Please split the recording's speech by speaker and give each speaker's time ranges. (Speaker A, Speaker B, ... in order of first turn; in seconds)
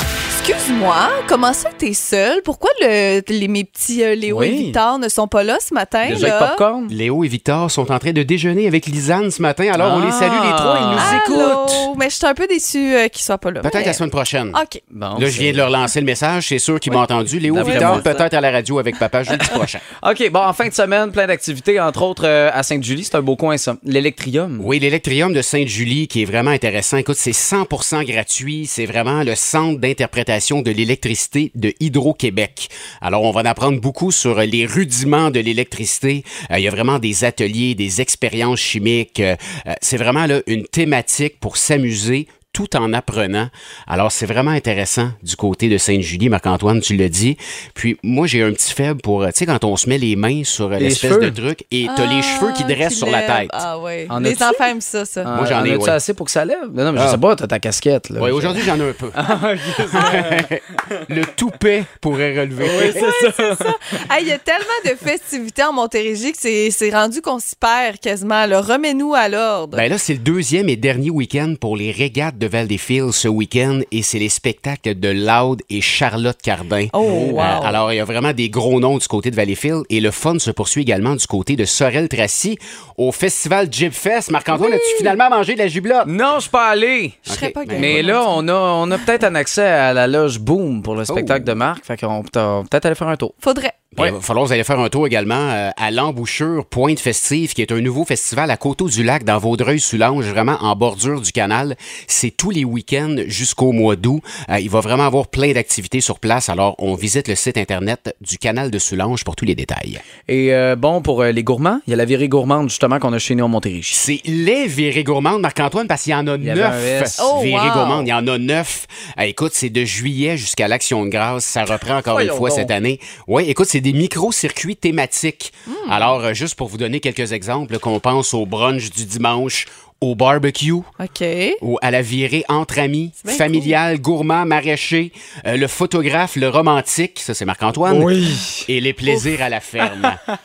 Speaker A: 0.3-6.6, 11.0-14.8, 17.6-18.0, 51.8-55.3, 62.8-69.8, 76.9-77.8, 84.6-85.1, 87.3-88.4, 93.4-93.9, 117.2-118.1, 125.7-126.2, 131.0-131.6, 133.2-133.8
Speaker B: 4.3-4.8, 6.0-6.9, 9.7-11.2, 14.9-15.7, 16.9-18.3, 19.3-24.7, 50.8-51.4, 54.1-54.7, 55.2-60.5, 62.6-63.8, 77.0-77.5, 86.0-87.2, 87.7-93.3, 110.3-114.0, 116.4-117.3, 122.1-122.7, 137.8-138.7, 139.8-140.3
Speaker C: 6.9-11.8, 13.6-14.6, 15.2-19.8, 24.6-53.6, 55.3-56.0, 57.0-57.2, 58.2-59.2, 59.9-63.1, 69.7-86.1, 87.2-88.0, 91.1-91.5, 94.0-110.0, 113.9-130.9, 131.6-138.1, 138.7-140.2